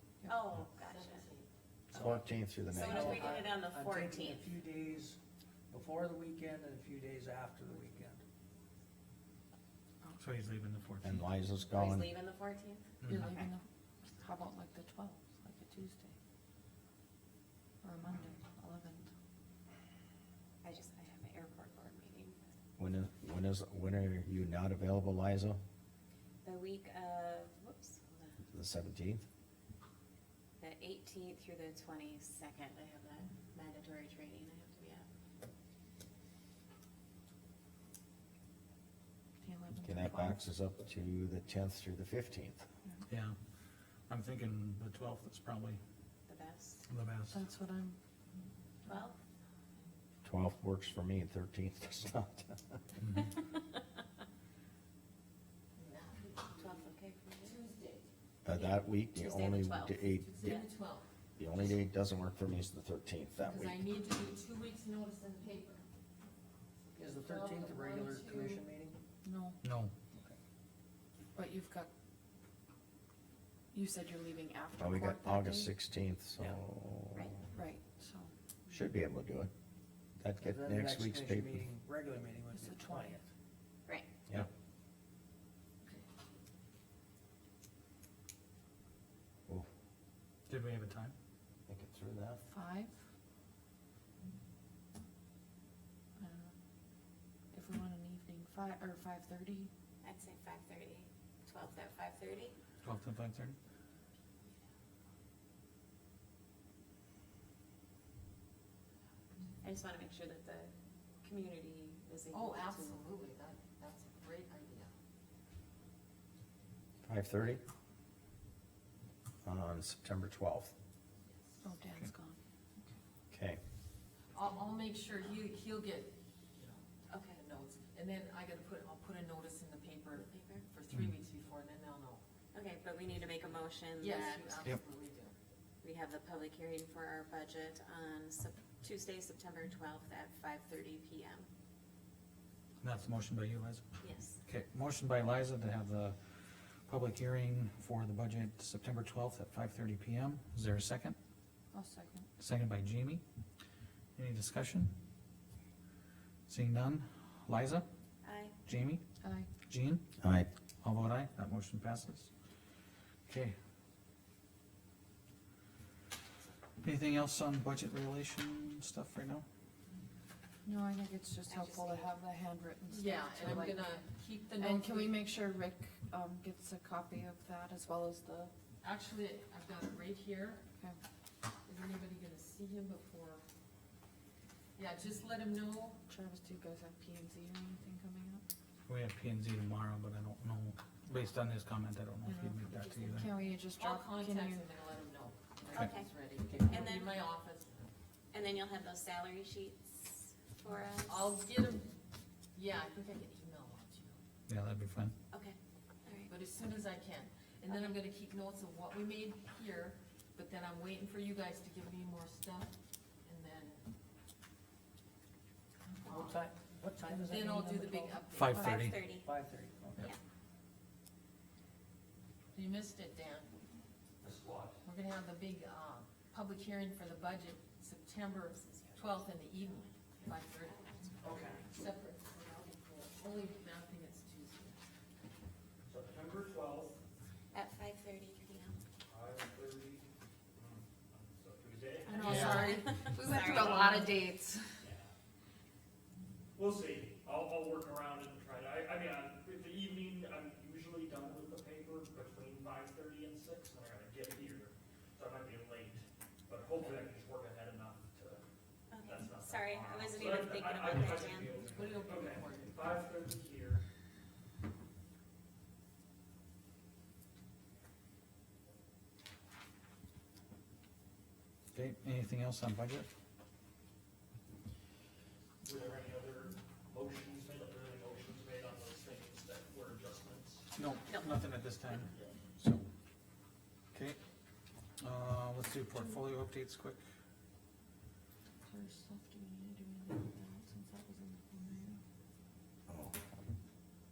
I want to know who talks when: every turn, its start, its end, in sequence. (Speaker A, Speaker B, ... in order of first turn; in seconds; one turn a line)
Speaker A: 0.3-1.3
Speaker B: 0.9-1.5
Speaker C: 1.9-5.2
Speaker D: 1.9-3.4
Speaker A: 2.7-4.5
Speaker C: 5.7-8.2
Speaker E: 10.2-11.2
Speaker D: 11.0-12.1
Speaker A: 11.7-12.9
Speaker E: 13.0-13.3
Speaker F: 13.0-16.2
Speaker F: 17.8-19.1
Speaker A: 20.6-22.5
Speaker D: 22.8-25.6
Speaker A: 26.4-28.4
Speaker D: 28.5-29.2
Speaker A: 30.6-35.1
Speaker F: 39.4-40.4
Speaker D: 39.8-42.6
Speaker E: 43.1-43.4
Speaker E: 44.1-45.8
Speaker A: 46.3-46.9
Speaker E: 46.9-47.4
Speaker F: 47.3-48.0
Speaker A: 48.9-49.2
Speaker D: 50.2-52.8
Speaker B: 55.8-58.1
Speaker A: 56.6-57.6
Speaker D: 58.4-60.4
Speaker A: 58.5-60.7
Speaker B: 60.2-61.1
Speaker D: 61.4-63.9
Speaker B: 63.4-65.8
Speaker B: 67.0-68.7
Speaker C: 67.0-69.0
Speaker F: 69.2-69.6
Speaker E: 69.6-69.9
Speaker F: 71.4-71.9
Speaker F: 73.7-75.7
Speaker D: 74.8-77.3
Speaker F: 77.5-78.3
Speaker D: 78.7-79.5
Speaker D: 80.2-81.7
Speaker C: 80.4-83.3
Speaker F: 82.5-83.2
Speaker E: 90.5-91.2
Speaker D: 91.7-92.4
Speaker F: 92.5-93.0
Speaker F: 96.2-96.5
Speaker F: 97.5-99.7
Speaker A: 100.0-102.6
Speaker E: 102.8-103.6
Speaker A: 109.6-110.7
Speaker A: 111.2-113.0
Speaker B: 112.3-114.9
Speaker D: 117.0-117.6
Speaker D: 119.4-120.7
Speaker B: 121.3-121.6
Speaker F: 121.6-122.4
Speaker D: 123.3-123.6
Speaker B: 124.3-132.2
Speaker A: 127.1-127.4
Speaker A: 130.2-130.7
Speaker A: 132.5-134.6
Speaker B: 134.0-135.4
Speaker A: 135.8-141.5
Speaker E: 142.8-143.9
Speaker A: 144.0-144.4
Speaker E: 144.4-151.2
Speaker F: 151.7-152.3
Speaker E: 152.4-153.2
Speaker E: 154.2-154.9
Speaker E: 156.5-157.9
Speaker A: 158.2-158.6
Speaker E: 158.7-159.0
Speaker F: 159.2-159.5
Speaker E: 159.7-160.0
Speaker D: 160.2-160.5
Speaker E: 160.8-162.3
Speaker E: 163.3-163.6
Speaker E: 166.8-169.4
Speaker F: 170.7-174.0
Speaker A: 171.5-172.1
Speaker B: 172.9-175.2
Speaker F: 174.5-178.5
Speaker B: 178.8-180.6
Speaker B: 181.7-183.4
Speaker B: 184.8-186.0
Speaker F: 186.1-188.4
Speaker E: 188.9-193.3
Speaker F: 192.2-194.7
Speaker B: 193.7-197.9
Speaker A: 195.7-196.1
Speaker C: 196.5-196.9
Speaker A: 196.7-197.2
Speaker A: 198.3-201.3
Speaker B: 201.1-202.0
Speaker B: 202.5-204.2
Speaker E: 204.5-205.2
Speaker A: 205.3-206.3
Speaker B: 206.3-213.9
Speaker A: 207.7-208.0
Speaker B: 216.0-216.4
Speaker C: 216.0-218.3
Speaker B: 217.1-218.8
Speaker E: 218.3-219.0
Speaker A: 218.5-219.3
Speaker C: 218.9-220.1
Speaker B: 222.5-223.6
Speaker G: 224.2-224.8
Speaker B: 224.8-234.8
Speaker A: 228.6-231.2
Speaker G: 231.2-231.6
Speaker G: 235.9-237.0
Speaker A: 237.5-238.8
Speaker G: 239.1-242.1
Speaker F: 242.1-244.8
Speaker B: 242.1-243.6
Speaker A: 242.1-244.1
Speaker E: 242.3-242.8
Speaker G: 246.6-258.4
Speaker A: 258.9-261.5
Speaker G: 259.1-263.8
Speaker B: 261.6-263.1
Speaker E: 271.7-273.1
Speaker G: 275.6-280.7
Speaker E: 280.7-282.8
Speaker A: 281.1-281.3
Speaker E: 283.9-284.2
Speaker E: 285.0-287.0
Speaker F: 288.7-292.0
Speaker D: 292.9-293.2